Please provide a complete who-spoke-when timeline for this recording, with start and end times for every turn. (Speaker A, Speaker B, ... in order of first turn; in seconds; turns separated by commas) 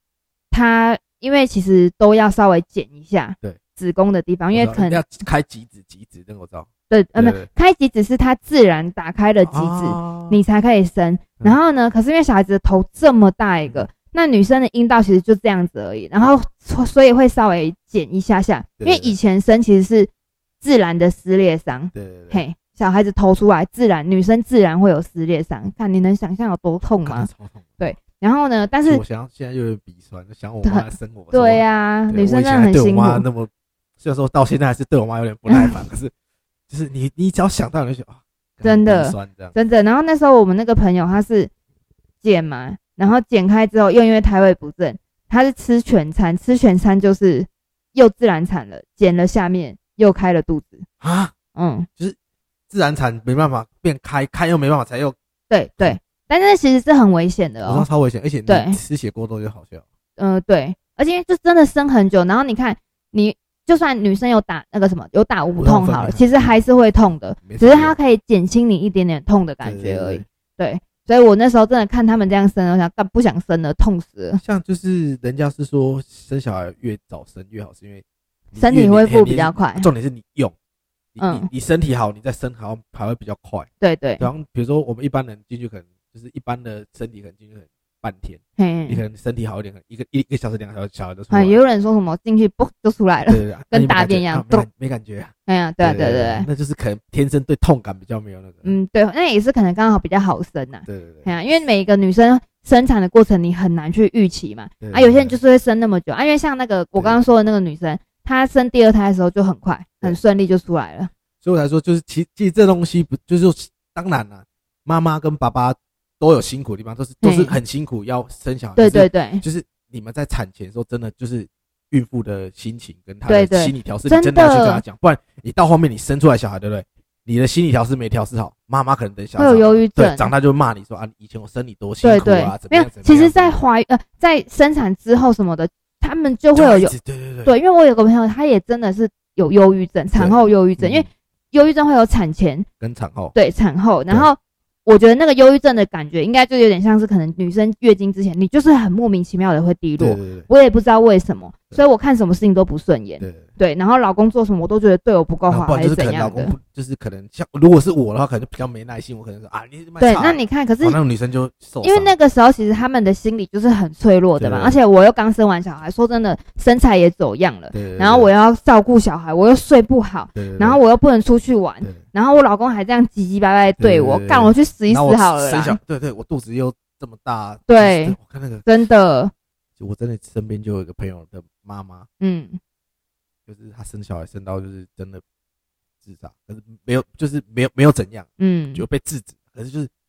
Speaker A: 0.5-5.0, Speaker B: 4.5-7.5, Speaker A: 6.9-20.1, Speaker B: 9.5-10.4, Speaker B: 18.8-19.1, Speaker A: 20.6-27.3, Speaker B: 21.9-22.4, Speaker B: 27.0-27.8, Speaker A: 27.8-29.0, Speaker B: 28.9-36.1, Speaker A: 30.6-33.2, Speaker A: 35.5-35.8, Speaker B: 36.7-39.5, Speaker A: 38.6-41.5, Speaker A: 42.2-50.9, Speaker B: 51.0-51.3, Speaker A: 51.5-51.9, Speaker B: 52.7-55.1, Speaker A: 55.5-57.9, Speaker B: 57.6-59.8, Speaker A: 58.5-58.8, Speaker A: 60.2-74.4, Speaker B: 65.6-66.6, Speaker B: 67.4-67.9, Speaker B: 69.6-70.2, Speaker B: 74.4-80.5, Speaker A: 78.6-79.9, Speaker B: 81.1-83.7, Speaker A: 81.2-81.5, Speaker A: 83.8-84.3, Speaker B: 84.2-91.6, Speaker A: 88.6-89.0, Speaker A: 91.3-94.7, Speaker B: 93.2-98.7, Speaker A: 95.5-96.5, Speaker A: 98.6-111.1, Speaker B: 100.8-101.3, Speaker B: 104.8-105.4, Speaker B: 107.0-107.2, Speaker B: 111.4-133.6, Speaker A: 117.2-117.5, Speaker A: 118.8-119.4, Speaker A: 123.3-124.8, Speaker A: 129.4-130.3, Speaker A: 132.0-136.9, Speaker B: 136.5-137.5, Speaker A: 137.4-142.7, Speaker B: 140.1-141.1, Speaker B: 142.8-143.3, Speaker A: 143.3-156.5, Speaker B: 150.0-150.5, Speaker B: 153.2-153.5, Speaker B: 155.5-162.1, Speaker A: 160.0-161.0, Speaker A: 161.8-175.8, Speaker B: 164.4-164.8, Speaker B: 167.7-168.3, Speaker B: 170.3-170.8, Speaker B: 173.8-178.6, Speaker A: 177.7-179.3, Speaker B: 179.8-182.1, Speaker A: 182.2-182.6, Speaker B: 183.5-185.2, Speaker B: 186.0-189.9, Speaker A: 188.4-188.8